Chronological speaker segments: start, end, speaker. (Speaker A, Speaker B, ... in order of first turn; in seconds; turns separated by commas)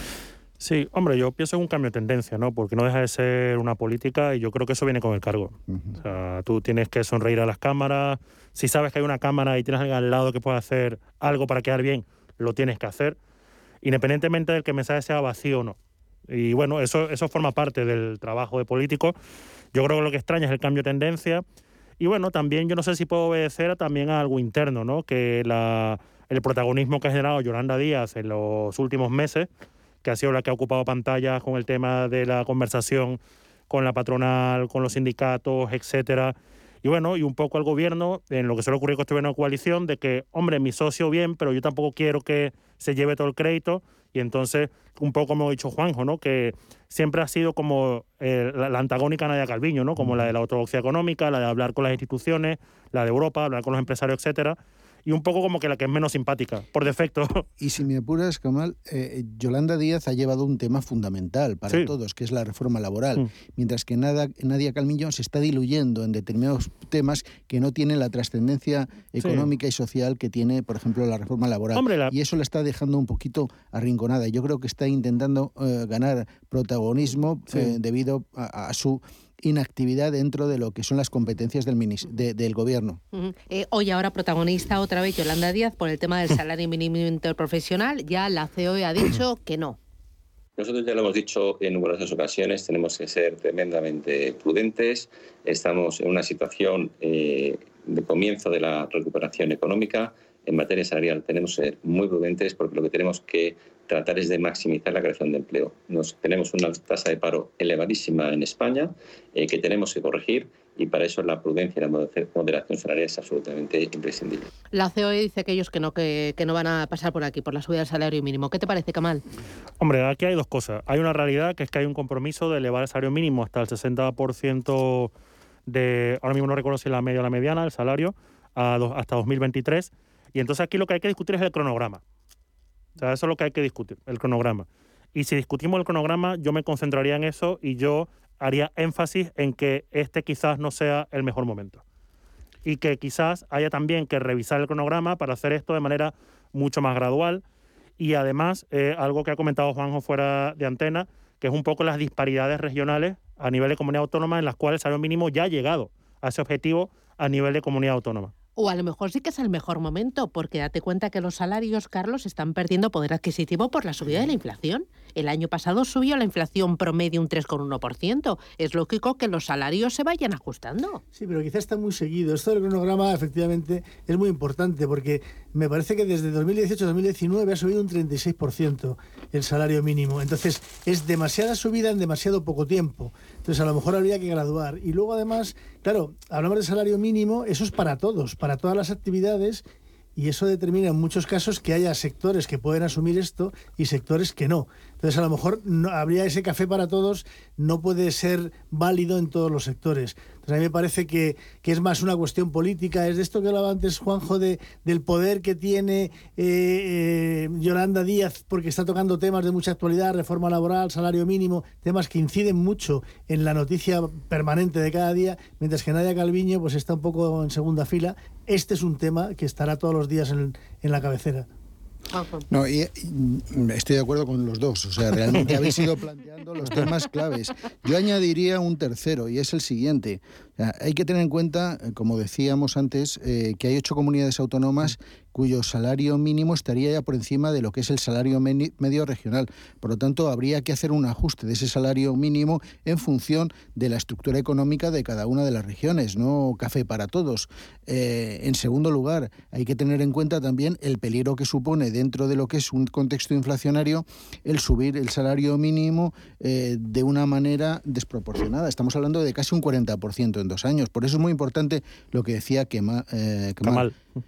Speaker A: 0.6-13.2, Speaker A: 13.8-15.8, Speaker A: 16.3-19.2, Speaker A: 19.7-21.4, Speaker A: 22.0-29.5, Speaker A: 30.0-57.4, Speaker B: 57.6-83.0, Speaker A: 69.2-69.5, Speaker A: 71.7-72.1, Speaker C: 83.1-89.8, Speaker D: 90.6-114.5, Speaker C: 114.7-119.2, Speaker A: 119.8-125.1, Speaker A: 125.7-132.0, Speaker A: 133.0-141.8, Speaker A: 142.7-147.4, Speaker A: 148.0-158.3, Speaker C: 158.6-171.0, Speaker E: 171.1-189.6, Speaker E: 190.2-221.5, Speaker C: 222.1-222.4, Speaker B: 222.5-263.9, Speaker A: 263.6-263.9